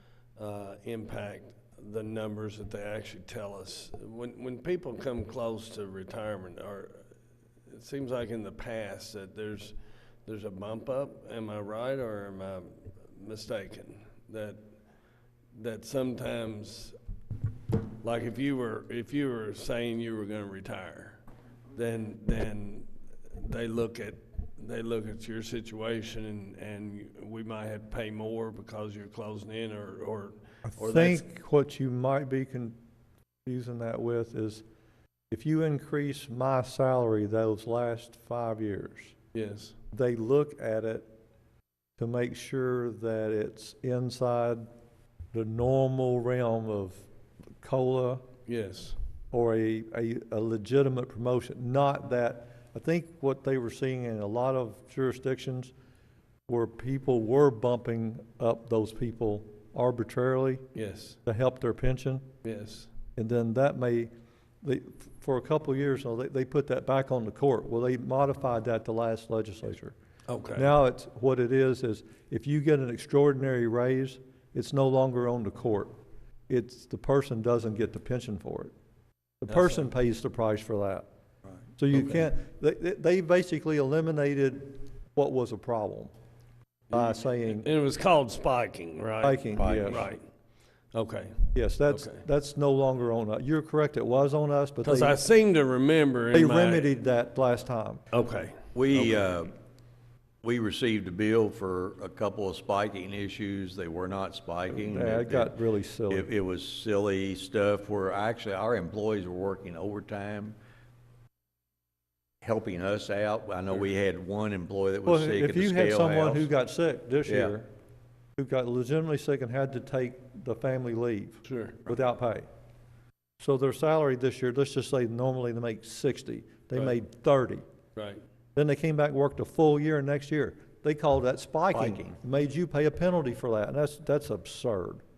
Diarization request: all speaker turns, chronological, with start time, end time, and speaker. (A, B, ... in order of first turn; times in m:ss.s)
0:00.4-0:07.1 A
0:07.7-0:14.7 A
0:15.5-0:17.0 A
0:18.0-0:21.2 A
0:21.8-0:31.3 A
0:30.7-0:32.8 B
0:33.4-0:34.6 B
0:35.3-0:39.1 B
0:39.3-0:39.8 A
0:39.9-0:41.1 B
0:42.0-0:44.7 B
0:45.3-0:47.1 B
0:47.6-0:48.2 B
0:48.5-0:49.0 A
0:49.3-0:55.7 B
0:56.5-1:00.6 B
1:00.7-1:01.2 A
1:01.3-1:02.2 B
1:02.4-1:02.9 A
1:03.2-1:04.1 B
1:04.6-1:10.0 B
1:10.3-1:10.7 A
1:10.6-1:15.9 B
1:16.5-1:18.7 B
1:19.4-1:21.1 B
1:19.5-1:19.9 A
1:21.8-1:26.1 B
1:26.9-1:30.2 A
1:26.9-1:27.7 B
1:29.2-1:30.1 B
1:29.6-1:30.1 C
1:30.9-1:32.2 A
1:31.5-1:35.2 B
1:34.8-1:36.9 A
1:36.3-1:38.0 B
1:38.1-1:39.1 A
1:38.7-1:39.5 C
1:40.4-1:45.5 C
1:44.7-1:46.3 B
1:46.1-1:50.6 C
1:52.4-1:56.5 C
1:55.1-1:57.7 B
1:57.2-1:57.5 C
1:58.4-2:02.5 B
2:01.4-2:01.8 A
2:03.4-2:07.6 B
2:08.0-2:08.2 A
2:08.6-2:15.0 B
2:11.7-2:12.2 C